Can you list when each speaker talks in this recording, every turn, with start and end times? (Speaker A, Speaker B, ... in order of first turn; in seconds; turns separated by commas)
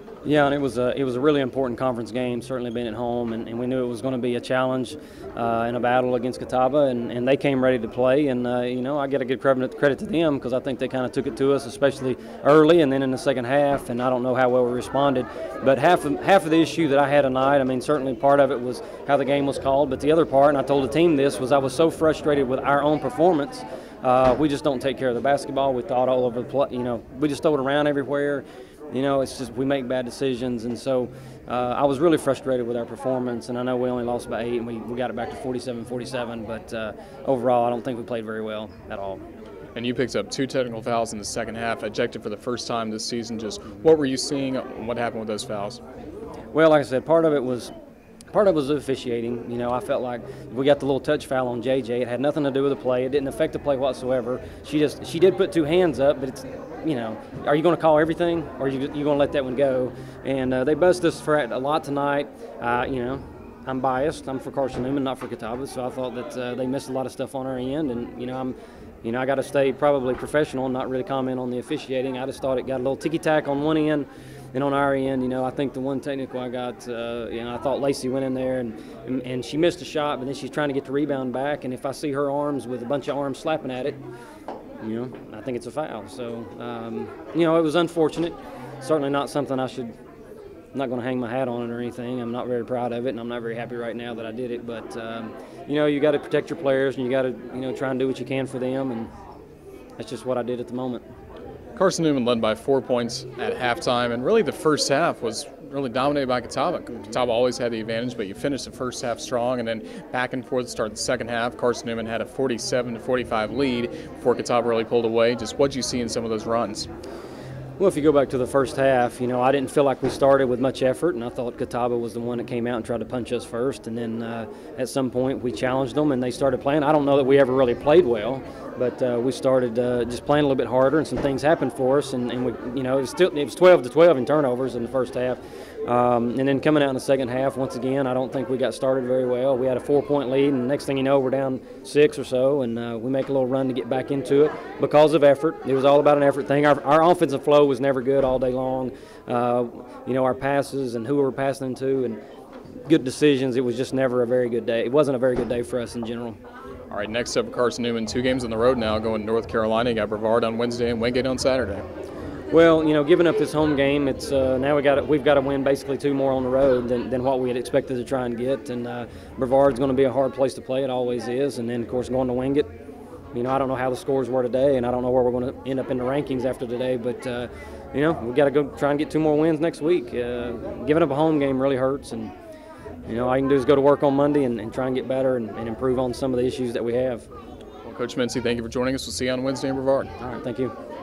Speaker A: 0.2-39.2, Speaker B: 39.7-45.8, Speaker A: 46.5-47.7, Speaker A: 48.3-84.0, Speaker A: 84.8-89.9, Speaker A: 90.7-99.1, Speaker A: 100.0-101.0, Speaker B: 101.7-116.9, Speaker A: 117.8-152.2, Speaker A: 152.8-156.4, Speaker B: 156.9-161.8, Speaker A: 162.5-172.7, Speaker A: 173.3-182.3, Speaker A: 183.1-187.3, Speaker B: 187.8-190.1, Speaker A: 190.2-190.7